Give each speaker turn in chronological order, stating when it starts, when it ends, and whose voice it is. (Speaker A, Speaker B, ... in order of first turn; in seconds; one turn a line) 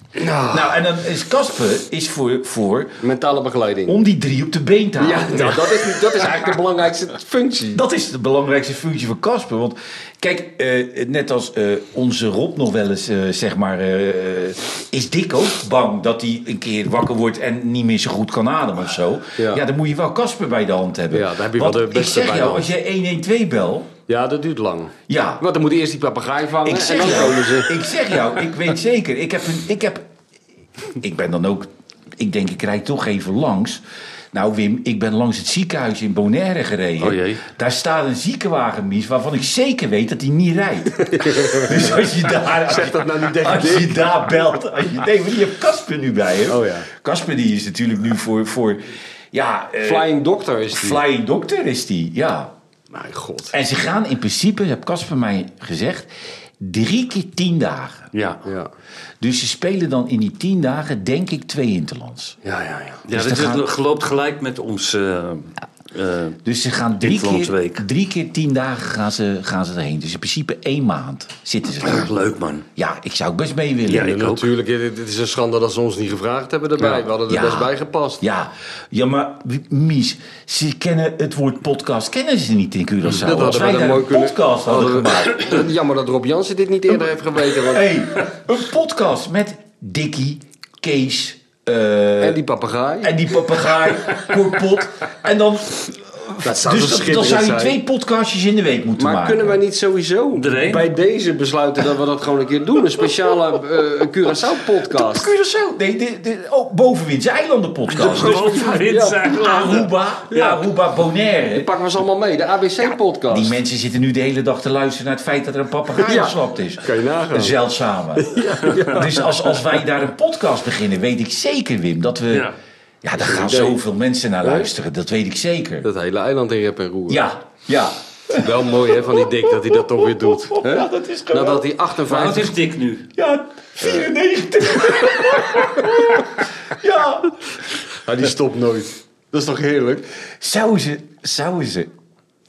Speaker A: 0.1-0.8
Speaker B: 0.5-3.0
Speaker A: 3.0-4.0
Speaker B: 3.9-5.8
Speaker A: 5.0-7.8
Speaker B: 7.7-23.9
Speaker A: 19.4-19.6
Speaker A: 21.1-22.7
Speaker A: 24.1-27.9
Speaker B: 25.1-25.4
Speaker B: 26.6-30.1
Speaker B: 30.9-33.8
Speaker B: 34.3-50.1
Speaker C: 37.0-37.4
Speaker A: 41.0-44.2
Speaker A: 46.5-46.9
Speaker A: 49.8-51.0
Speaker B: 50.7-52.5
Speaker A: 52.9-53.5
Speaker B: 53.5-58.1
Speaker C: 58.1-58.4
Speaker A: 58.4-58.7
Speaker B: 59.2-62.4
Speaker A: 62.4-63.0
Speaker C: 63.1-66.4
Speaker B: 63.1-63.7
Speaker B: 66.4-72.1
Speaker C: 67.0-67.8
Speaker C: 71.8-72.7
Speaker B: 72.8-74.2
Speaker C: 73.9-74.5
Speaker A: 73.9-78.2
Speaker B: 77.3-85.6
Speaker A: 83.2-87.9
Speaker B: 87.6-92.4
Speaker A: 92.2-93.3
Speaker B: 93.0-99.6
Speaker A: 96.4-97.8
Speaker A: 99.0-105.3
Speaker C: 100.3-100.9
Speaker B: 104.9-108.5
Speaker C: 107.9-110.6
Speaker A: 108.0-109.7
Speaker B: 109.4-111.7
Speaker A: 110.3-110.5
Speaker A: 111.5-113.6
Speaker B: 113.3-122.5
Speaker A: 116.0-117.6
Speaker A: 118.1-119.6
Speaker B: 123.0-125.8
Speaker A: 123.2-123.8
Speaker A: 124.4-124.7
Speaker A: 125.8-127.3
Speaker B: 127.1-131.7
Speaker A: 128.3-132.6
Speaker C: 132.1-133.1
Speaker B: 133.2-137.5
Speaker A: 138.0-140.1
Speaker B: 140.3-141.9